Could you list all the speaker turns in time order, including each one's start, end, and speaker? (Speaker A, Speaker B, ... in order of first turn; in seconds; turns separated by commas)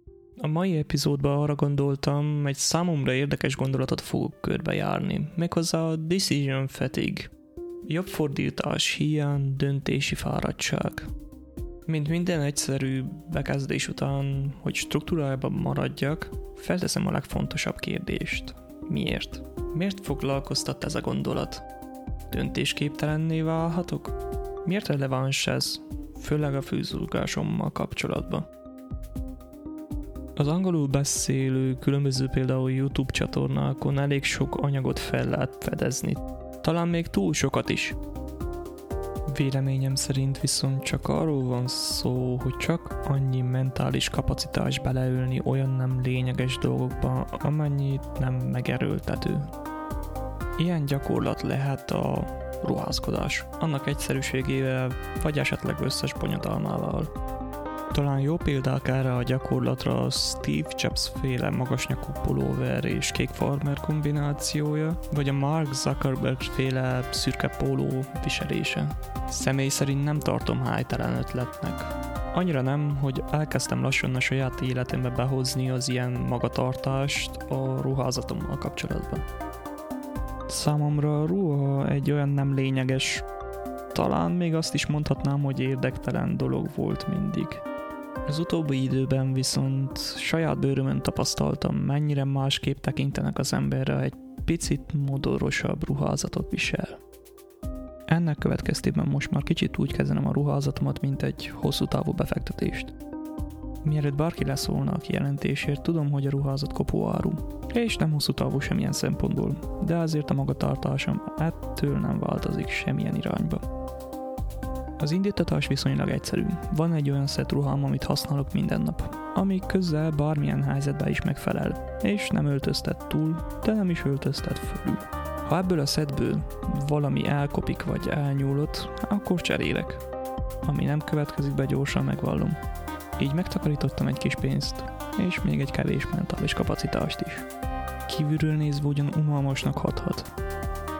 Speaker A: 0.4-7.3, Speaker A: 7.8-11.1, Speaker A: 11.8-21.6, Speaker A: 22.3-28.4, Speaker A: 30.4-38.0, Speaker A: 39.3-49.5, Speaker A: 50.6-57.1, Speaker A: 57.9-79.2, Speaker A: 80.5-83.2, Speaker A: 83.9-87.6, Speaker A: 88.2-97.0, Speaker A: 98.1-102.9, Speaker A: 103.8-113.6, Speaker A: 115.0-130.0, Speaker A: 130.6-132.6, Speaker A: 133.2-137.4, Speaker A: 138.1-140.3